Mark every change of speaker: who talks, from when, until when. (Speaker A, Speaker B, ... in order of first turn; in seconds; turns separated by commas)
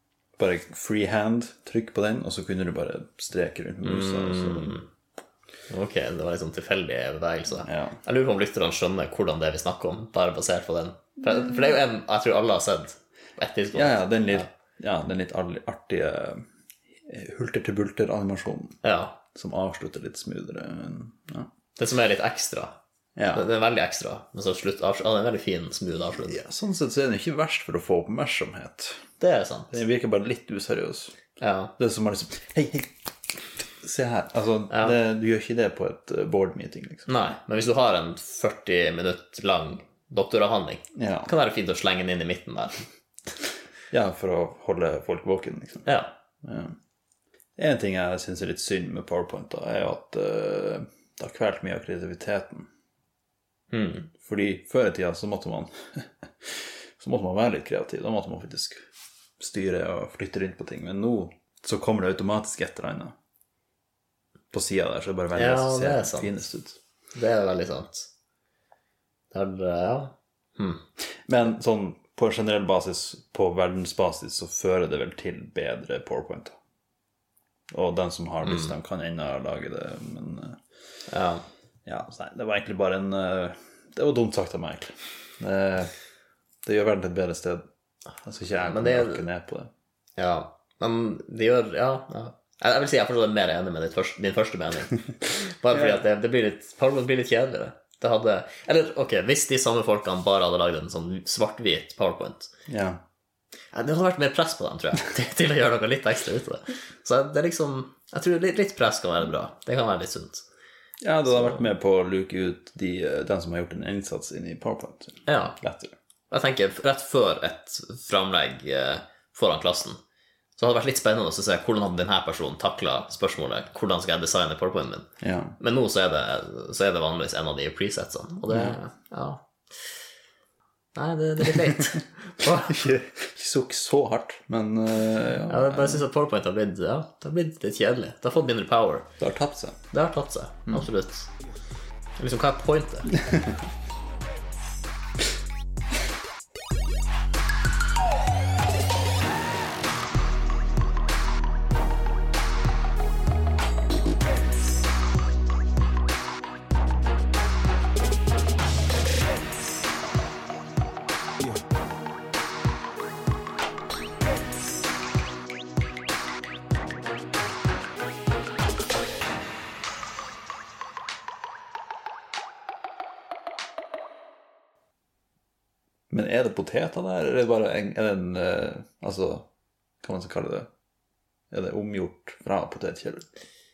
Speaker A: 0.4-4.8, Speaker B: 3.8-4.9, Speaker B: 5.7-14.5, Speaker A: 7.7-8.0, Speaker A: 13.7-16.4, Speaker A: 17.1-18.8, Speaker B: 18.8-19.2, Speaker A: 19.3-21.5, Speaker B: 21.8-22.8, Speaker A: 23.2-23.5, Speaker B: 23.3-26.4, Speaker A: 26.3-29.0, Speaker B: 29.2-29.7, Speaker A: 29.7-31.1, Speaker B: 31.4-31.7, Speaker A: 31.8-32.9, Speaker A: 33.7-37.1, Speaker B: 37.1-42.8, Speaker A: 41.0-41.3, Speaker A: 43.9-45.9, Speaker B: 45.9-46.1, Speaker A: 46.4-46.8, Speaker A: 47.6-52.7, Speaker B: 53.7-54.1, Speaker A: 54.2-58.8, Speaker A: 59.4-63.1, Speaker A: 64.5-66.8, Speaker B: 65.3-66.3, Speaker B: 67.2-68.1, Speaker B: 69.3-70.8, Speaker A: 71.3-76.5, Speaker A: 77.7-80.6, Speaker B: 78.5-78.7, Speaker B: 81.1-81.5, Speaker A: 81.8-85.9, Speaker A: 86.6-87.7, Speaker A: 88.2-89.7, Speaker B: 88.7-89.3, Speaker B: 90.2-102.5, Speaker A: 95.7-96.0, Speaker A: 102.7-103.0, Speaker B: 103.7-110.5, Speaker A: 111.0-115.9, Speaker B: 111.3-111.6, Speaker B: 115.3-115.6, Speaker B: 116.3-120.0, Speaker B: 120.6-125.1, Speaker A: 125.2-125.6, Speaker B: 125.6-129.9, Speaker A: 128.5-128.8, Speaker B: 130.9-132.8, Speaker A: 132.4-136.1, Speaker B: 135.5-139.1, Speaker A: 139.2-139.8, Speaker B: 139.9-141.3, Speaker B: 142.2-143.3, Speaker A: 143.3-143.6, Speaker A: 176.1-179.5, Speaker A: 180.0-180.7, Speaker A: 181.5-183.3